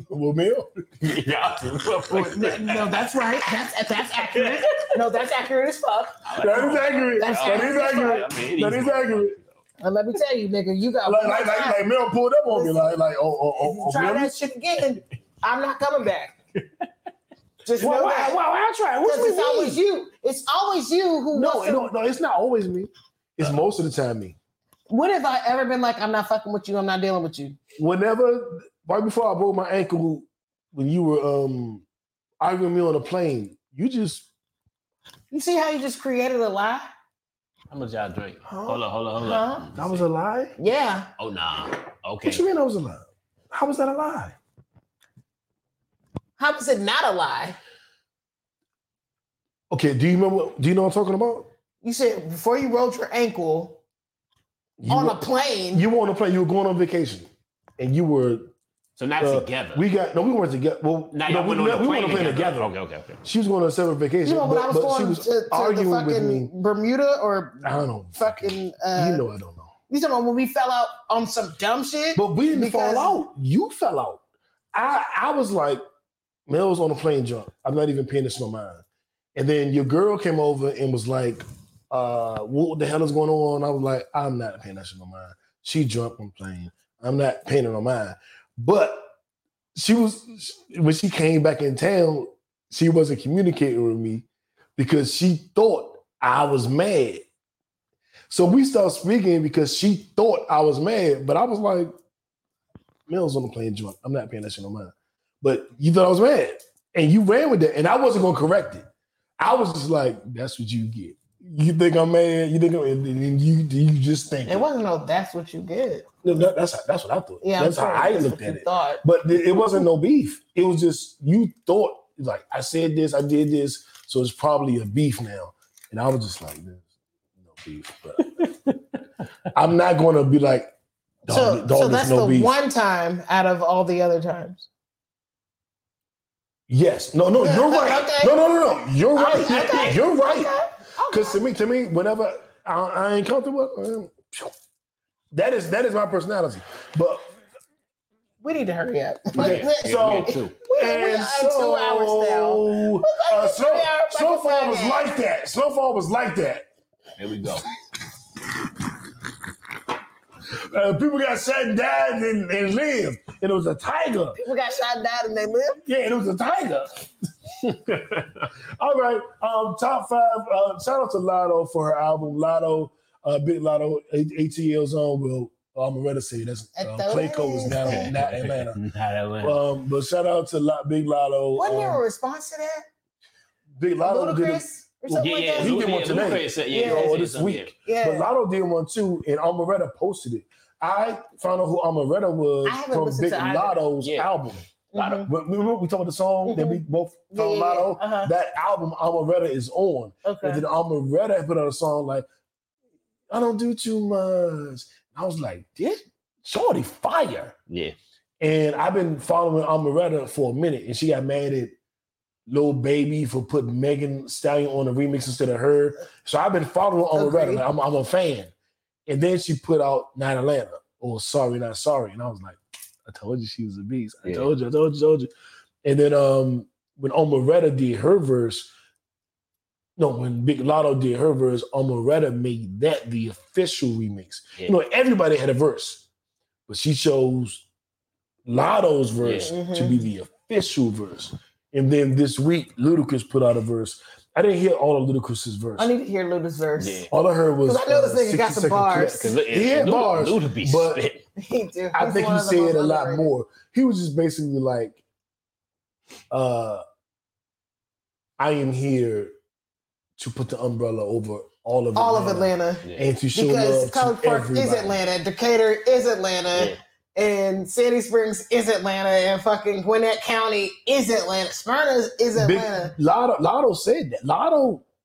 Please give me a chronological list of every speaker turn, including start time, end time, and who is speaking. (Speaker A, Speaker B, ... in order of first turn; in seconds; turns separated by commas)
Speaker A: 0.1-0.7, Speaker B: 1.0-3.0, Speaker C: 2.1-6.3, Speaker B: 4.3-4.8, Speaker B: 6.2-9.5, Speaker A: 6.4-9.3, Speaker C: 7.2-8.2, Speaker C: 9.8-11.8, Speaker A: 11.0-14.4, Speaker C: 12.5-12.8, Speaker C: 13.6-16.4, Speaker C: 17.6-18.4, Speaker A: 17.8-19.8, Speaker C: 19.0-21.9, Speaker A: 21.3-24.4, Speaker C: 24.9-27.6, Speaker A: 27.8-31.8, Speaker A: 32.4-34.3, Speaker C: 35.3-36.9, Speaker B: 37.7-40.0, Speaker A: 38.5-38.8, Speaker C: 39.2-39.7, Speaker A: 39.7-40.5, Speaker C: 40.6-41.1, Speaker B: 41.2-42.4, Speaker A: 42.2-44.4, Speaker C: 46.4-47.6, Speaker A: 49.7-51.5, Speaker C: 51.8-53.8, Speaker A: 54.8-58.5, Speaker C: 54.9-55.8, Speaker B: 59.0-59.8, Speaker A: 59.2-62.7, Speaker B: 61.1-63.2, Speaker A: 63.2-66.5, Speaker C: 64.2-69.2, Speaker A: 67.6-69.7, Speaker C: 69.9-73.2, Speaker A: 72.1-74.2, Speaker A: 74.7-75.8, Speaker A: 76.5-89.1, Speaker A: 89.7-94.2, Speaker A: 94.8-97.2, Speaker A: 98.3-101.9, Speaker A: 103.1-108.9, Speaker A: 109.4-114.7, Speaker C: 114.4-116.1, Speaker A: 116.2-126.8, Speaker C: 117.4-119.0, Speaker A: 127.4-128.5, Speaker B: 128.2-128.7, Speaker A: 129.5-130.7, Speaker A: 131.2-132.5, Speaker C: 131.3-134.7, Speaker A: 136.7-140.5, Speaker C: 137.4-138.5, Speaker C: 139.1-141.4, Speaker A: 141.1-144.5, Speaker A: 145.3-147.3, Speaker C: 148.4-155.1, Speaker B: 149.3-150.6, Speaker A: 149.3-156.7, Speaker B: 157.2-157.7, Speaker A: 160.5-164.4, Speaker C: 164.3-165.8, Speaker A: 165.8-167.1, Speaker A: 167.6-178.8, Speaker C: 176.8-178.1, Speaker B: 177.8-179.6, Speaker A: 179.4-182.0, Speaker C: 181.6-182.8, Speaker A: 183.8-194.7, Speaker C: 184.0-185.9, Speaker B: 185.1-187.7, Speaker C: 186.7-187.2, Speaker C: 187.8-188.3, Speaker C: 192.6-193.8, Speaker B: 194.0-194.3, Speaker C: 194.9-195.3, Speaker B: 194.9-195.2, Speaker A: 195.2-202.2, Speaker C: 196.4-196.8, Speaker C: 197.3-198.3, Speaker C: 200.2-200.6, Speaker A: 203.3-207.6, Speaker B: 207.7-207.9, Speaker A: 208.4-211.7, Speaker A: 212.5-218.5, Speaker C: 217.1-217.6, Speaker A: 219.1-225.3, Speaker B: 224.2-224.5, Speaker A: 225.8-228.7, Speaker A: 230.0-236.0, Speaker A: 236.7-237.6, Speaker A: 238.4-245.9, Speaker B: 239.2-239.5, Speaker C: 239.4-240.0, Speaker C: 245.8-247.1, Speaker B: 246.8-247.1, Speaker A: 247.1-251.0, Speaker C: 247.6-249.3, Speaker B: 249.2-251.2, Speaker C: 251.4-253.3, Speaker A: 251.9-255.0, Speaker A: 256.3-256.8, Speaker A: 258.4-259.3, Speaker A: 260.2-265.0, Speaker C: 261.9-272.9, Speaker A: 272.4-274.8